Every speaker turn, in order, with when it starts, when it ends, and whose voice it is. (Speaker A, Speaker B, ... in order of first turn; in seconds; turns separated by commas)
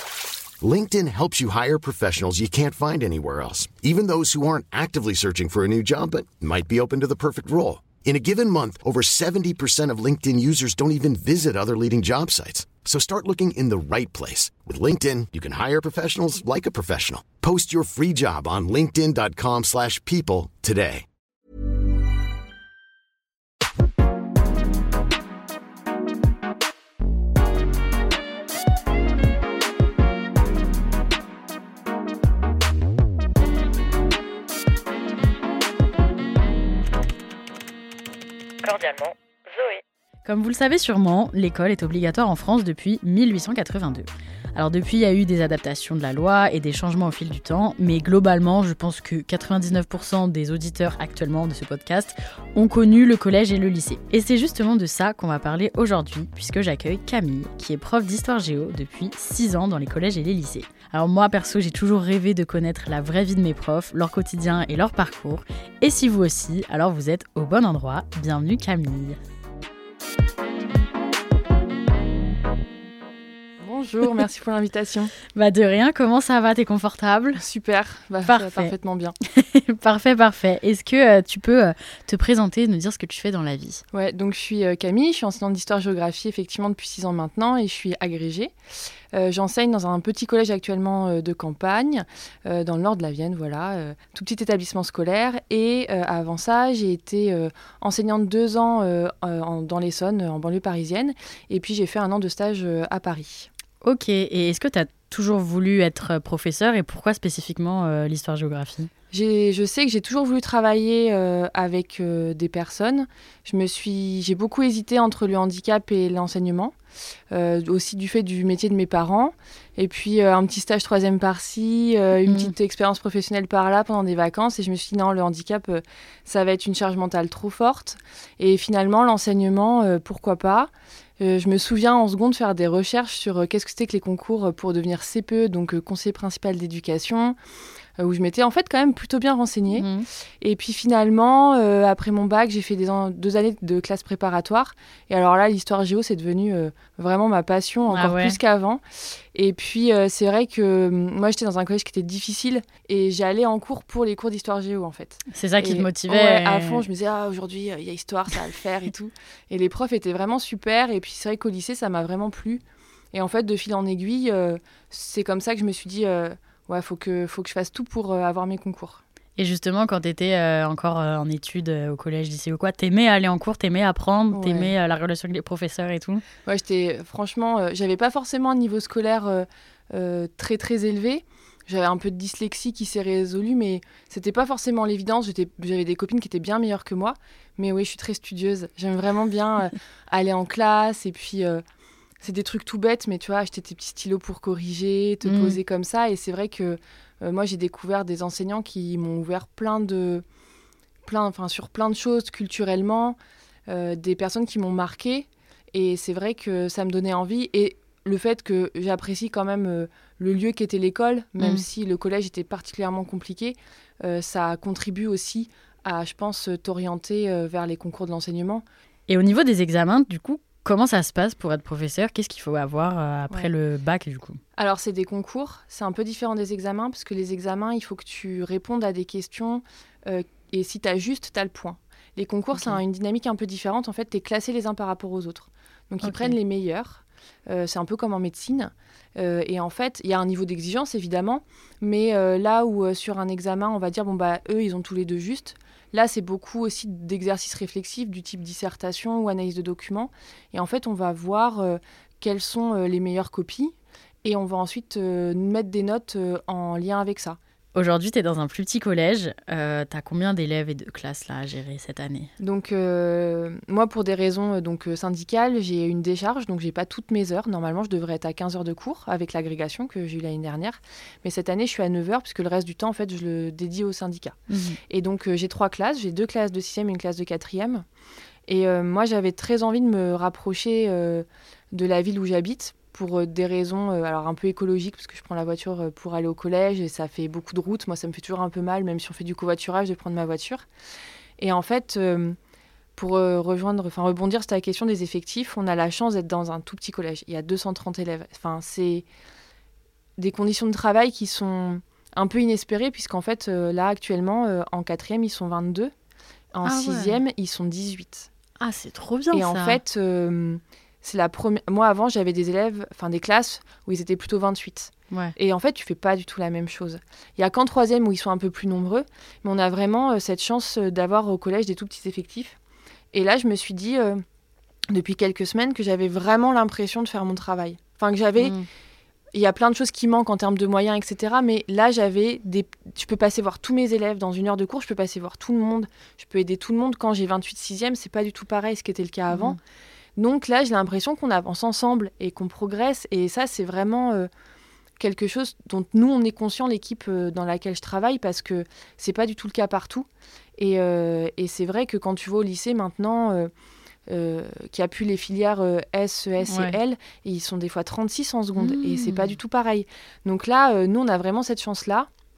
Speaker A: 0.6-21.1, Speaker B: 38.6-69.2, Speaker C: 73.6-75.1, Speaker B: 75.3-77.4, Speaker C: 77.4-79.2, Speaker B: 78.2-78.7, Speaker B: 79.2-83.8, Speaker C: 83.9-88.5, Speaker C: 89.1-103.5, Speaker B: 103.8-108.9, Speaker C: 109.1-116.7, Speaker C: 117.3-137.4, Speaker B: 122.2-122.5, Speaker C: 138.0-139.9, Speaker B: 139.7-140.1, Speaker C: 140.4-169.0, Speaker B: 147.9-148.4, Speaker B: 155.3-156.8, Speaker B: 169.4-176.2, Speaker C: 174.3-174.7, Speaker C: 176.4-191.6, Speaker C: 192.2-200.2, Speaker B: 195.2-195.6, Speaker C: 201.1-218.6, Speaker B: 219.1-224.4, Speaker C: 224.6-257.4, Speaker B: 236.0-236.3, Speaker B: 257.7-262.3, Speaker C: 262.4-274.4, Speaker B: 274.5-274.8, Speaker C: 274.9-277.8, Speaker C: 278.5-290.6, Speaker C: 291.4-292.4, Speaker C: 292.9-299.1, Speaker C: 300.2-305.9, Speaker C: 306.5-308.3, Speaker B: 306.6-307.2, Speaker B: 308.6-309.8, Speaker C: 309.3-322.6, Speaker B: 315.1-315.4, Speaker C: 323.1-324.2, Speaker C: 324.9-328.6, Speaker B: 328.4-328.7, Speaker C: 329.3-339.6, Speaker B: 339.3-339.6, Speaker C: 340.1-344.3, Speaker C: 345.0-353.5, Speaker C: 354.1-362.1, Speaker B: 356.4-356.8, Speaker B: 358.6-359.3